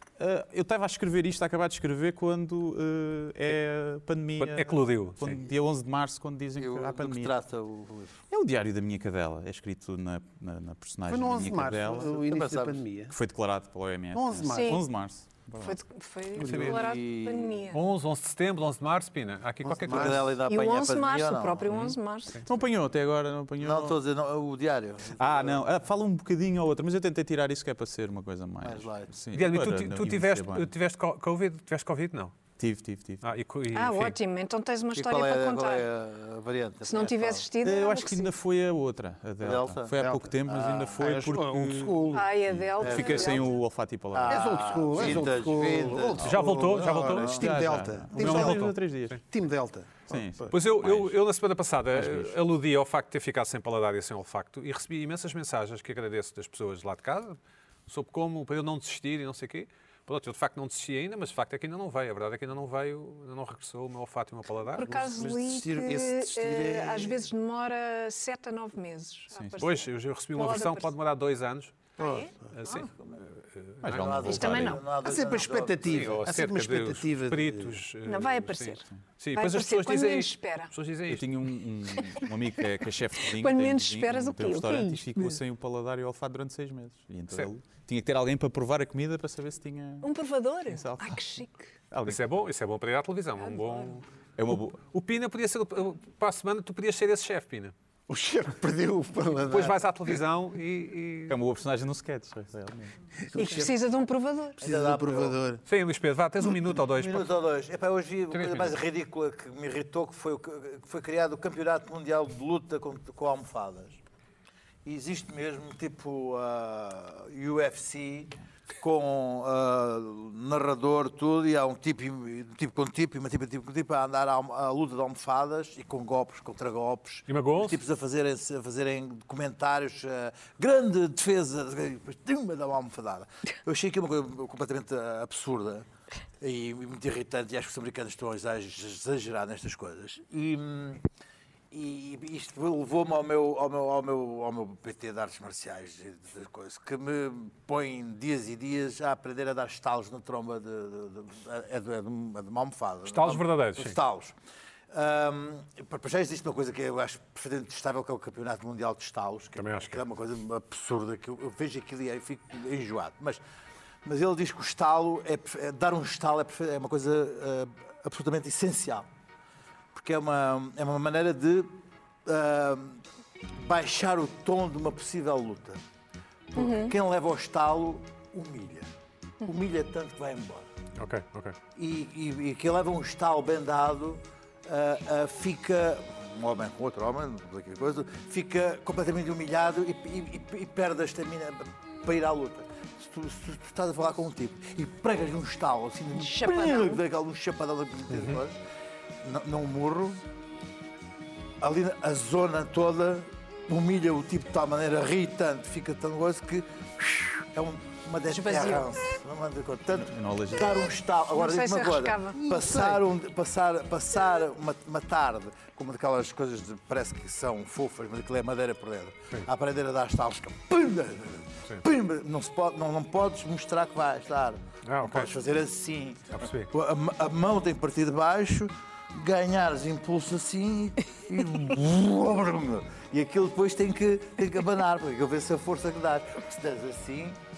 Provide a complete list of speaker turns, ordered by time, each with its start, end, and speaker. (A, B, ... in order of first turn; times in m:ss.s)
0:00.2-0:07.3 A
0:04.4-0:05.4 B
0:06.6-0:08.2 C
0:08.3-0:12.2 A
0:11.1-0:13.1 D
0:12.0-0:12.8 C
0:13.1-0:15.8 A
0:14.1-0:14.8 D
0:14.5-0:14.8 E
0:15.6-0:17.8 E
0:16.4-0:16.8 B
0:16.4-0:17.6 C
0:17.7-0:20.2 B
0:19.6-0:20.2 D
0:19.8-0:21.9 C
0:20.4-0:22.4 E
0:22.4-0:24.0 A
0:23.6-0:25.6 C
0:25.2-0:30.7 A
0:28.6-0:29.1 C
0:29.3-0:32.3 B
0:32.6-0:33.2 A
0:33.2-0:34.2 B
0:33.7-0:35.8 E
0:34.9-0:37.4 C
0:36.8-0:38.3 E
0:37.6-0:45.2 A
0:39.4-0:39.9 C
0:40.0-0:42.3 D
0:40.5-0:40.9 C
0:42.1-0:43.5 E
0:42.8-0:43.4 C
0:44.1-0:47.4 C
0:44.3-0:48.7 D
0:46.2-0:47.4 B
0:47.3-0:49.2 A
0:48.1-0:49.2 B
0:49.2-0:50.5 D
0:50.1-0:51.2 A
0:50.5-0:57.4 B
0:51.9-0:52.4 A
0:57.9-1:04.9 B
1:04.7-1:10.9 E
1:04.8-1:07.2 D
1:09.3-1:09.6 A
1:09.6-1:11.7 B
1:12.0-1:12.8 E
1:12.0-1:12.3 D
1:12.5-1:13.8 B
1:13.8-1:14.8 A
1:13.8-1:16.2 C
1:14.3-1:14.8 E
1:15.0-1:17.8 D
1:15.9-1:21.3 B
1:18.0-1:20.7 E
1:21.1-1:30.1 A
1:22.0-1:22.2 E
1:23.2-1:25.4 E
1:30.0-1:31.6 E
1:30.7-1:31.2 A
1:31.9-1:32.2 A
1:32.0-1:34.0 B
1:34.4-1:34.8 A
1:34.8-1:37.7 B
1:38.1-1:39.8 D
1:39.5-1:41.4 B
1:41.3-1:42.9 A
1:43.3-1:43.8 D
1:43.4-1:44.6 E
1:44.6-1:45.6 D
1:44.6-1:45.4 C
1:45.7-1:47.3 B
1:46.9-1:54.0 C
1:48.3-1:48.7 B
1:54.8-2:15.8 C
2:07.3-2:07.8 B
2:16.4-2:21.0 C
2:21.7-2:34.3 C
2:33.1-2:34.0 B
2:34.9-2:43.4 C
2:39.5-2:40.0 B
2:44.0-2:49.1 C
2:49.9-2:53.0 C
2:53.6-2:55.8 C
2:56.5-2:58.9 C
2:56.6-2:56.9 E
2:59.4-3:00.7 C
3:01.0-3:01.6 B
3:01.7-3:18.6 C
3:16.1-3:17.0 E
3:18.1-3:18.4 B
3:19.2-3:20.2 C
3:21.6-3:57.4 C
3:28.3-3:28.9 E
3:29.9-3:30.8 A
3:31.3-3:32.4 E
3:32.4-3:33.0 D
3:44.8-3:45.3 B
3:46.3-3:46.7 B